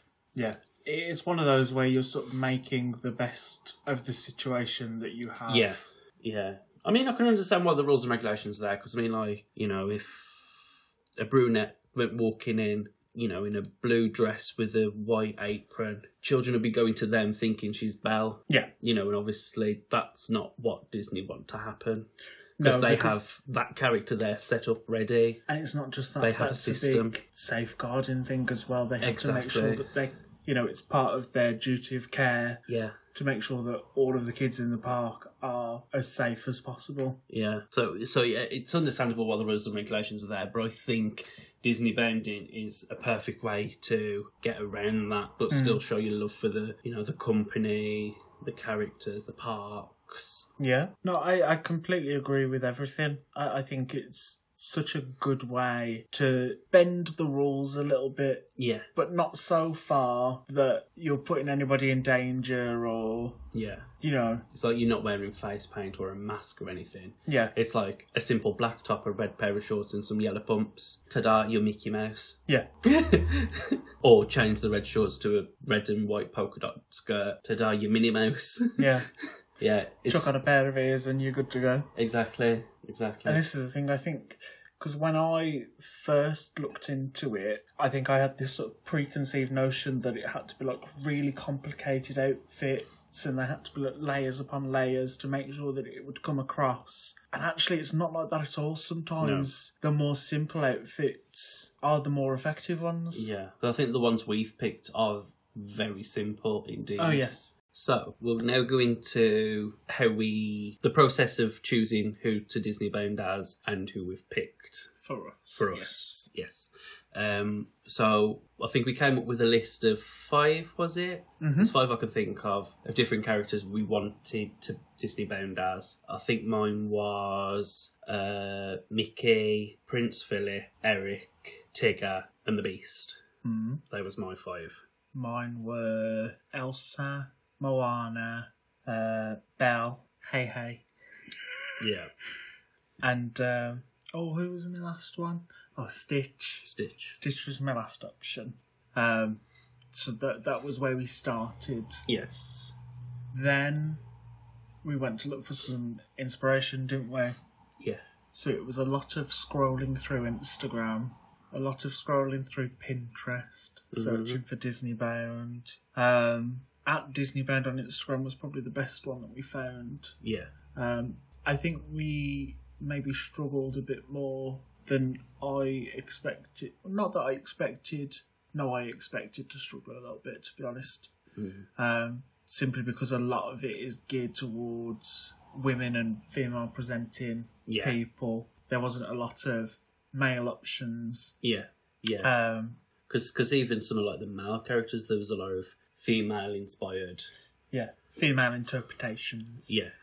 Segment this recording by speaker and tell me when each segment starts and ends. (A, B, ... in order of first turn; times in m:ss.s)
0:00.3-0:05.8 A
0:05.5-0:25.4 B
0:22.6-0:23.2 A
0:25.5-0:32.6 A
0:26.2-0:27.2 B
0:29.0-0:29.9 B
0:32.7-0:33.0 B
0:33.1-0:37.2 A
0:37.3-0:50.5 B
0:45.5-0:45.8 A
0:50.6-1:03.4 A
0:58.6-0:58.9 B
1:03.5-1:03.9 B
1:04.0-1:04.4 A
1:04.5-1:18.9 B
1:07.3-1:07.5 A
1:18.8-1:19.1 A
1:19.6-1:20.3 B
1:20.1-1:21.9 A
1:21.9-1:23.4 B
1:23.2-1:43.3 A
1:39.2-1:39.5 B
1:43.1-1:54.9 B
1:47.0-1:47.5 A
1:55.0-1:56.3 A
1:55.5-2:13.2 B
2:01.4-2:01.7 A
2:13.4-2:13.8 A
2:13.9-2:14.8 B
2:15.1-2:20.8 A
2:21.8-2:22.1 B
2:23.0-2:32.0 A
2:26.6-2:27.2 B
2:32.1-2:32.8 B
2:33.3-2:34.0 A
2:34.8-2:37.4 A
2:38.3-2:50.2 A
2:43.9-2:44.4 B
2:50.2-2:50.5 B
2:50.7-3:01.1 A
3:01.3-3:01.7 B
3:01.8-3:11.4 A
3:07.7-3:08.0 B
3:11.4-3:12.3 B
3:12.2-3:12.8 A
3:13.1-3:17.3 B
3:17.7-3:19.8 A
3:19.7-3:19.9 B